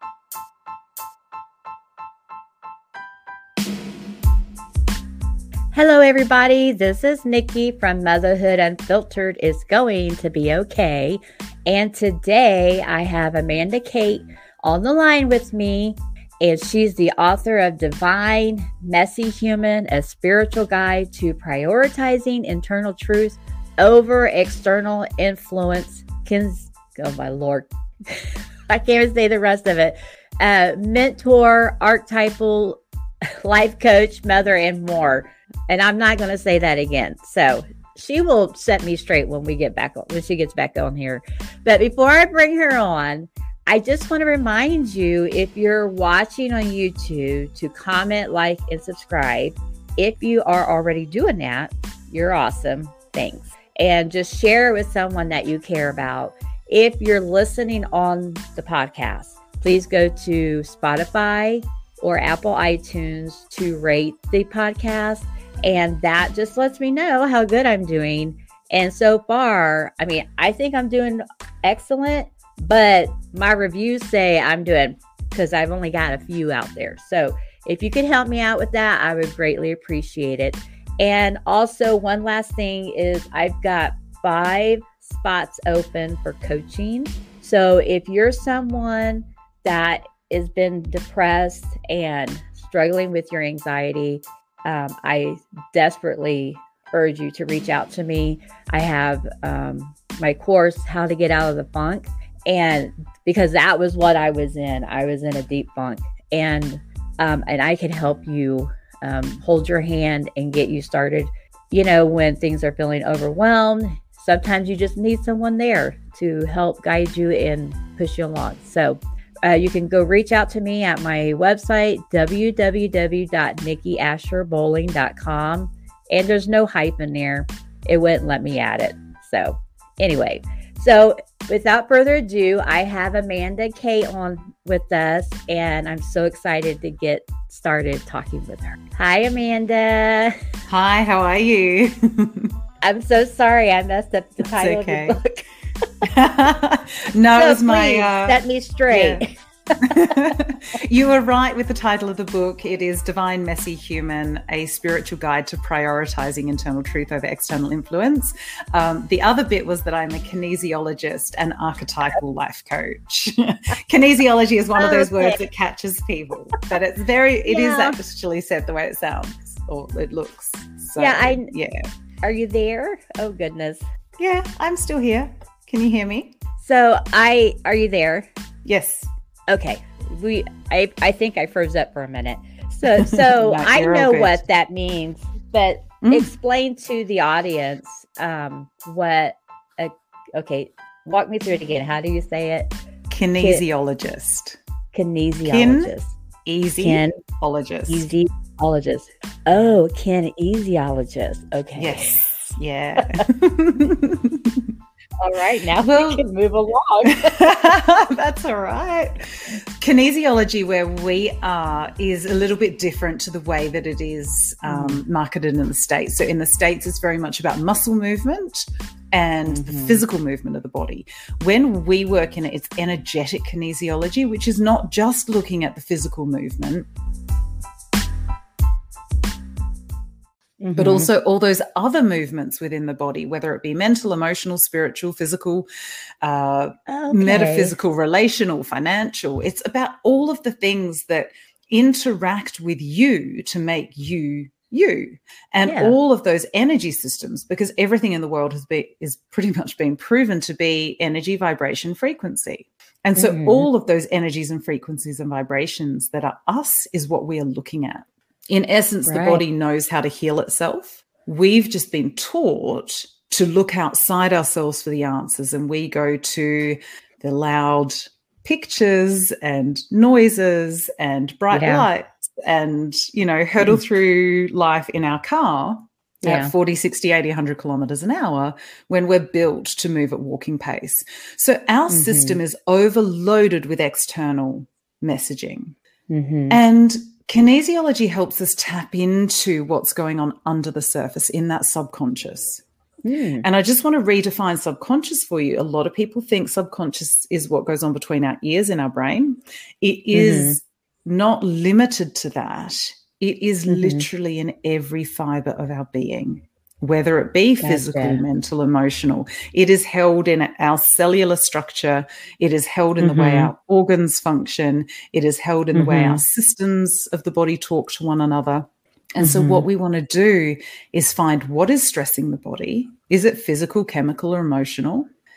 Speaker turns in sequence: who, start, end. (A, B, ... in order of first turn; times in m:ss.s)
0:05.7-2:20.4 A
2:20.7-2:22.5 B
2:22.8-2:25.5 A
2:24.4-2:25.2 B
2:26.0-2:29.2 B
2:27.3-2:29.3 A
2:29.8-2:51.8 B
2:29.9-2:30.2 A
2:44.8-2:45.4 A
2:47.5-2:48.0 A
2:51.0-2:51.5 A
2:52.2-2:53.8 A
2:54.2-2:56.3 B
2:56.6-2:58.3 A
2:58.6-2:59.1 B
2:59.5-3:12.8 A
3:03.0-3:04.4 B
3:06.0-3:06.3 B
3:13.1-3:14.6 B
3:14.9-3:16.2 A
3:15.4-3:15.9 B
3:16.4-3:18.1 B
3:16.8-3:17.1 A
3:17.9-3:22.2 A
3:21.8-3:24.7 B
3:25.2-3:27.4 A
3:25.8-3:26.2 B
3:27.2-3:46.9 B
3:34.6-3:35.0 A
3:39.5-3:40.0 A
3:50.6-3:51.1 A
3:50.8-3:55.7 B
3:56.2-4:45.8 B
3:56.9-3:57.8 A
4:05.7-4:06.0 A
4:13.2-4:13.7 A
4:19.1-4:19.4 A
4:31.5-4:31.9 A
4:36.2-4:36.5 A
4:41.9-4:42.4 A
4:46.1-4:46.6 A
4:46.5-4:52.6 B
4:53.0-4:53.5 A
4:53.4-5:25.1 B
5:00.1-5:00.6 A
5:03.7-5:04.1 A
5:07.6-5:08.2 A
5:13.0-5:13.5 A
5:15.7-5:16.2 A
5:19.2-5:19.6 A